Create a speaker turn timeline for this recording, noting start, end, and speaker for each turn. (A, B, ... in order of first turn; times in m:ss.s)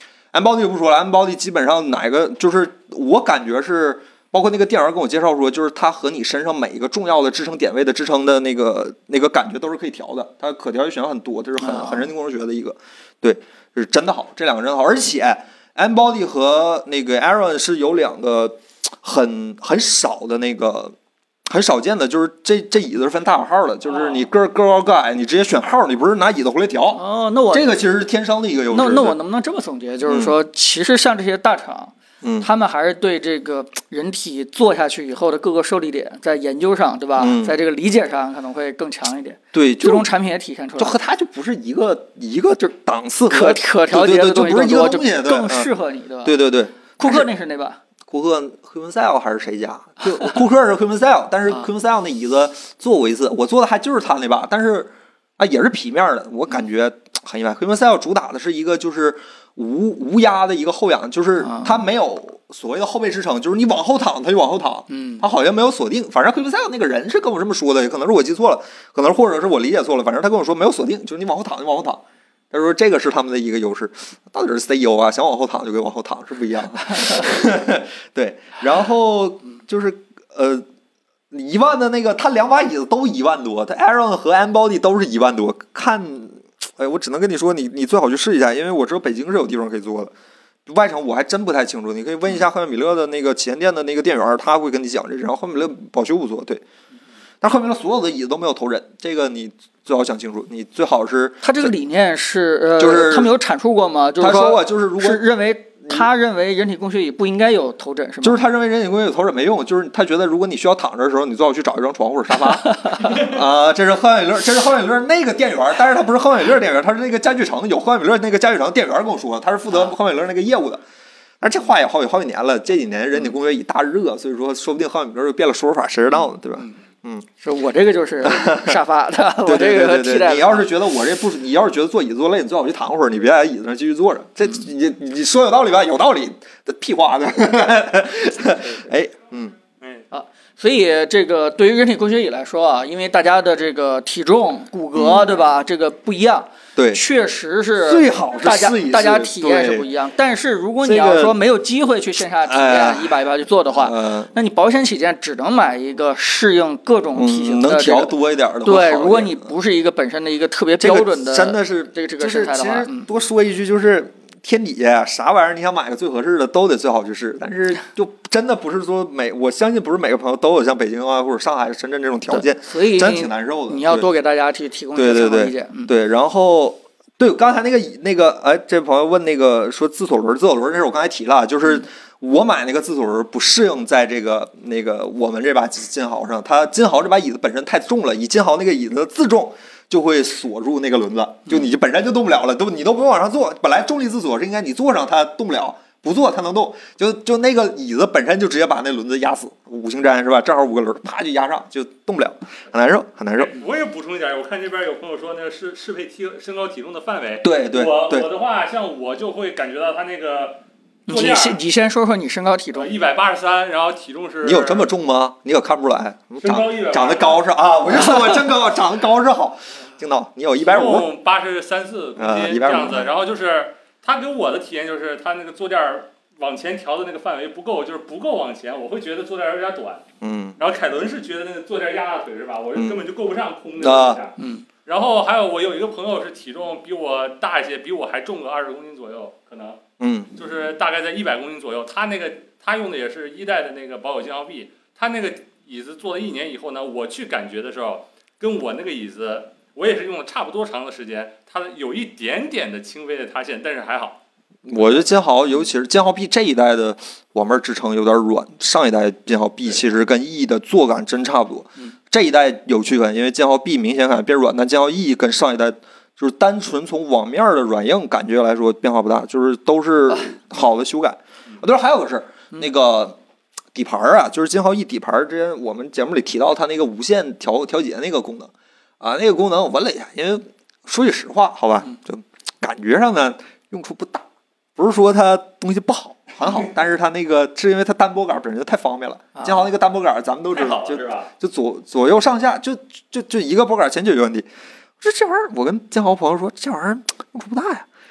0:00.3-0:21.0 A
0:11.6-0:12.1 B
0:21.5-0:29.2 A
0:26.9-0:27.7 B
0:28.7-0:41.0 B
0:30.1-0:30.4 A
0:32.2-0:32.5 A
0:37.2-0:37.6 A
0:39.5-0:40.1 A
0:40.8-0:45.7 A
0:43.3-0:46.4 B
0:46.2-0:47.3 A
0:47.0-0:47.8 B
0:48.1-1:20.6 A
1:01.4-1:01.8 B
1:04.9-1:05.2 B
1:21.3-1:30.1 A
1:30.7-1:36.6 A
1:37.4-1:41.7 A
1:41.4-1:48.4 B
1:42.8-1:43.3 A
1:44.2-1:45.2 A
1:48.2-2:00.8 A
1:52.8-1:53.2 B
2:01.4-2:07.3 A
2:07.4-2:10.7 B
2:08.2-2:08.8 A
2:09.5-2:19.6 A
2:20.1-2:38.1 B
2:25.0-2:25.3 A
2:26.8-2:27.0 A
2:27.8-2:29.9 A
2:30.8-2:31.4 A
2:32.4-2:33.2 A
2:33.8-2:34.3 A
2:37.2-2:39.5 A
2:38.6-2:43.1 B
2:40.8-2:54.1 A
2:52.3-2:55.9 B
2:55.0-3:23.5 A
3:23.4-3:31.6 C
3:27.4-3:28.3 A
3:31.1-3:32.9 B
3:32.7-3:34.9 C
3:34.4-3:41.1 A
3:36.4-3:37.4 C
3:40.6-3:50.0 C
3:42.2-3:43.1 A
3:50.2-3:50.6 A
3:50.6-3:59.8 C
3:52.8-3:53.0 A
3:53.8-3:54.2 A
3:54.4-3:54.6 B
4:00.0-4:00.3 A
4:00.4-4:14.2 C
4:14.7-4:33.2 A
4:14.8-4:15.1 C
4:33.7-4:54.5 A
4:50.5-4:51.3 C
4:55.0-4:57.9 A